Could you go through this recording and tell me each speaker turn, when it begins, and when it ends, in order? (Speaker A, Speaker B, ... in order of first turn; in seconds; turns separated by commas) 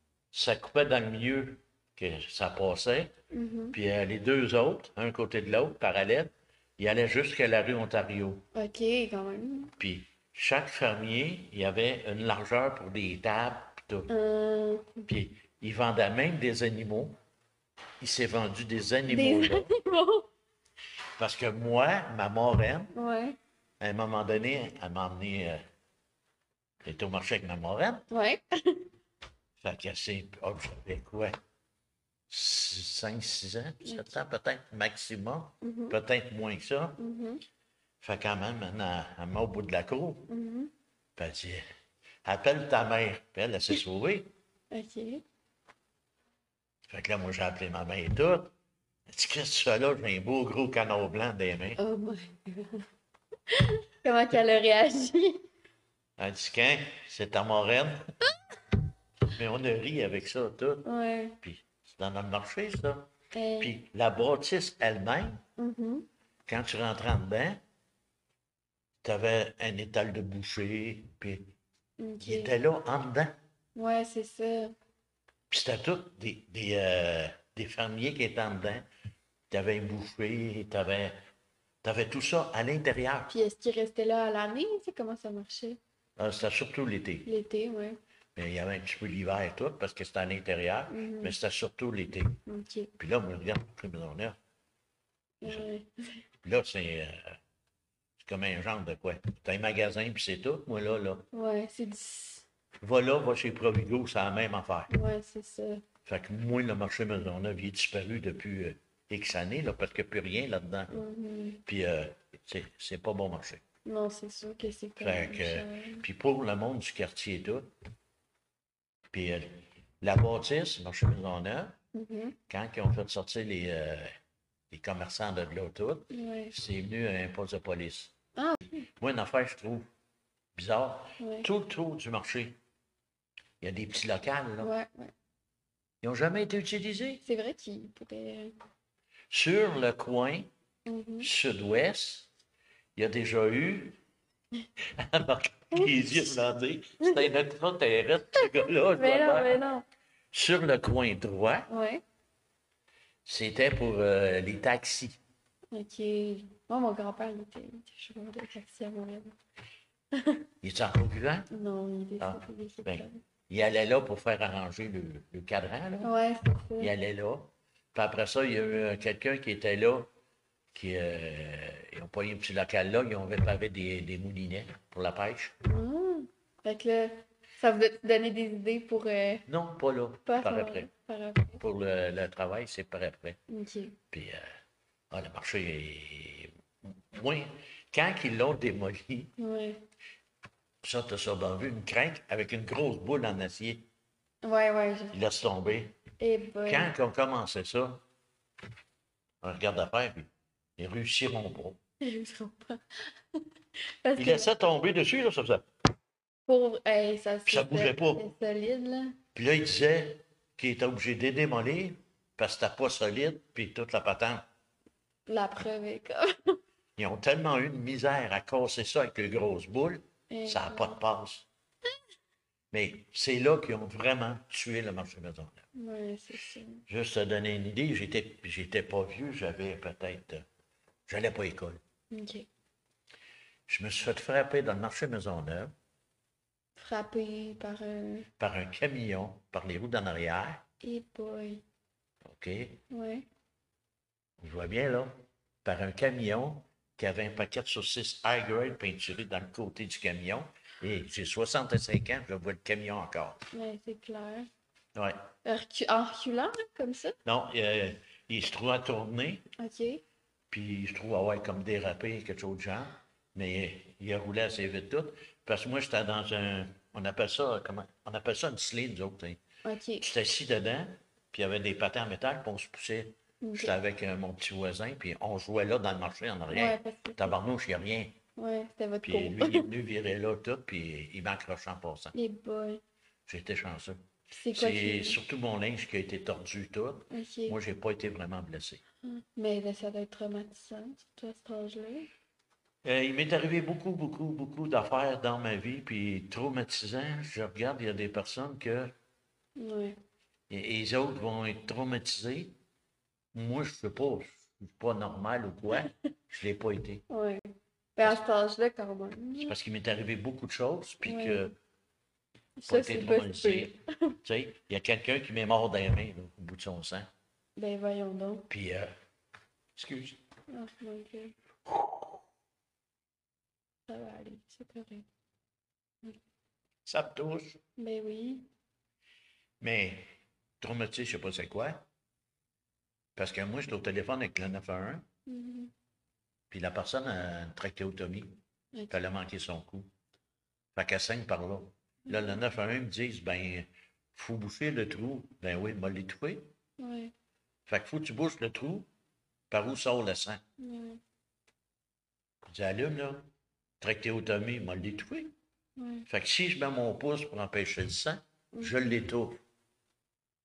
Speaker A: 0.3-3.1, Speaker B: 3.3-3.8, Speaker A: 3.7-8.4, Speaker B: 8.5-9.7, Speaker A: 9.8-14.1, Speaker B: 14.1-15.1, Speaker A: 15.1-17.2, Speaker A: 18.0-19.7, Speaker B: 19.1-20.3, Speaker A: 21.2-22.9, Speaker B: 22.9-23.4, Speaker A: 23.8-25.6, Speaker A: 26.8-28.1, Speaker B: 28.1-28.9, Speaker A: 29.6-31.4, Speaker A: 32.3-37.0, Speaker B: 33.8-34.2, Speaker B: 35.6-36.0, Speaker B: 37.0-37.4, Speaker A: 38.0-40.3, Speaker B: 40.3-40.7, Speaker A: 41.2-41.6, Speaker A: 42.2-44.3, Speaker B: 44.7-45.2, Speaker A: 46.9-48.5, Speaker A: 49.1-51.8, Speaker B: 51.8-52.9, Speaker B: 53.5-55.4, Speaker A: 56.2-58.1, Speaker A: 59.3-60.9, Speaker B: 60.9-61.4, Speaker A: 61.4-63.1, Speaker B: 63.3-63.8, Speaker A: 63.6-65.4, Speaker B: 65.6-66.1, Speaker A: 66.5-67.6, Speaker A: 69.0-71.5, Speaker B: 72.0-72.5, Speaker A: 72.2-73.3, Speaker B: 73.8-74.7, Speaker A: 75.5-78.8, Speaker A: 79.5-81.2, Speaker A: 81.8-83.4, Speaker B: 83.3-85.8, Speaker A: 86.2-87.3, Speaker B: 87.2-88.0, Speaker A: 88.4-92.4, Speaker B: 90.9-91.3, Speaker B: 92.5-92.9, Speaker A: 93.0-94.4, Speaker B: 95.4-95.9, Speaker A: 96.4-97.4, Speaker A: 98.2-101.3, Speaker B: 101.3-102.5, Speaker A: 102.8-104.9, Speaker B: 104.9-105.8, Speaker A: 106.1-110.9, Speaker B: 110.9-111.6, Speaker A: 111.7-113.6, Speaker B: 113.8-116.0, Speaker A: 115.0-117.7, Speaker A: 119.1-121.7, Speaker B: 121.9-122.4, Speaker A: 122.5-124.1, Speaker A: 124.7-128.1, Speaker B: 126.1-126.5, Speaker B: 128.4-128.7, Speaker A: 129.0-129.9, Speaker A: 130.6-132.6, Speaker B: 131.2-131.5, Speaker A: 133.6-134.7, Speaker B: 134.6-135.1, Speaker A: 136.0-137.2, Speaker B: 137.2-138.5, Speaker A: 139.3-140.5, Speaker B: 140.9-141.3, Speaker A: 141.2-142.3, Speaker A: 143.0-144.0, Speaker A: 145.0-149.6, Speaker B: 145.7-146.2, Speaker B: 147.0-147.3, Speaker B: 148.4-149.8, Speaker A: 150.3-151.7, Speaker B: 151.7-152.0, Speaker A: 153.3-155.2, Speaker B: 155.7-159.3, Speaker B: 160.2-160.4, Speaker A: 160.6-161.5, Speaker B: 161.5-163.2, Speaker A: 162.2-166.1, Speaker B: 166.0-166.9, Speaker A: 166.8-170.1, Speaker A: 170.7-175.5, Speaker B: 175.6-179.4, Speaker A: 179.5-180.9, Speaker B: 180.3-181.6, Speaker A: 181.6-183.4, Speaker B: 183.5-184.0, Speaker A: 184.1-184.4, Speaker A: 185.1-186.5, Speaker A: 187.1-189.3, Speaker B: 189.4-189.8, Speaker A: 190.8-193.8, Speaker B: 194.4-195.2, Speaker A: 195.1-196.0, Speaker B: 196.2-196.9, Speaker A: 196.7-198.0, Speaker A: 199.4-201.8, Speaker B: 202.0-203.0, Speaker B: 204.0-204.5, Speaker A: 204.2-205.6, Speaker B: 206.5-209.2, Speaker A: 207.5-208.2, Speaker A: 209.3-214.4, Speaker B: 215.3-216.6, Speaker A: 217.0-221.5, Speaker B: 220.3-221.0, Speaker A: 222.7-225.6, Speaker B: 225.8-226.8, Speaker A: 226.9-230.4, Speaker A: 231.1-231.8, Speaker B: 232.1-232.5, Speaker A: 233.7-235.7, Speaker B: 236.8-238.3, Speaker A: 238.4-240.6, Speaker B: 240.8-241.6, Speaker A: 242.3-242.8, Speaker B: 242.9-243.3, Speaker A: 244.4-245.1, Speaker A: 245.7-253.4, Speaker B: 253.5-254.5, Speaker B: 255.4-257.2, Speaker A: 257.2-259.4, Speaker B: 259.6-260.0, Speaker A: 260.5-269.4, Speaker B: 269.6-270.0, Speaker A: 270.0-278.1, Speaker B: 273.4-273.7, Speaker B: 276.5-277.4, Speaker B: 278.4-279.7, Speaker A: 279.0-282.1, Speaker B: 282.1-282.8, Speaker A: 283.3-288.8, Speaker B: 284.3-285.2, Speaker B: 287.1-287.6, Speaker B: 289.0-292.1, Speaker A: 292.8-298.9, Speaker B: 299.6-300.0, Speaker A: 300.5-302.6, Speaker A: 303.3-307.0, Speaker B: 307.1-307.4, Speaker B: 308.0-309.5, Speaker A: 309.4-311.5, Speaker B: 311.1-311.4, Speaker B: 312.6-314.2, Speaker A: 312.7-313.7, Speaker A: 314.2-317.1, Speaker B: 317.6-318.5, Speaker A: 318.5-318.9, Speaker A: 319.8-320.2, Speaker B: 320.5-321.4, Speaker A: 321.7-322.2, Speaker B: 323.9-325.1, Speaker A: 326.9-327.6, Speaker B: 327.8-328.5, Speaker A: 329.6-330.1, Speaker A: 330.6-331.8, Speaker A: 333.2-335.0, Speaker B: 335.3-335.7, Speaker A: 336.5-338.4, Speaker A: 338.9-339.9, Speaker A: 340.8-346.5, Speaker B: 346.8-347.1, Speaker A: 347.7-348.9, Speaker A: 349.5-350.4, Speaker B: 350.6-351.0, Speaker A: 352.4-353.3, Speaker A: 353.8-355.3, Speaker B: 355.8-356.1, Speaker A: 356.1-359.4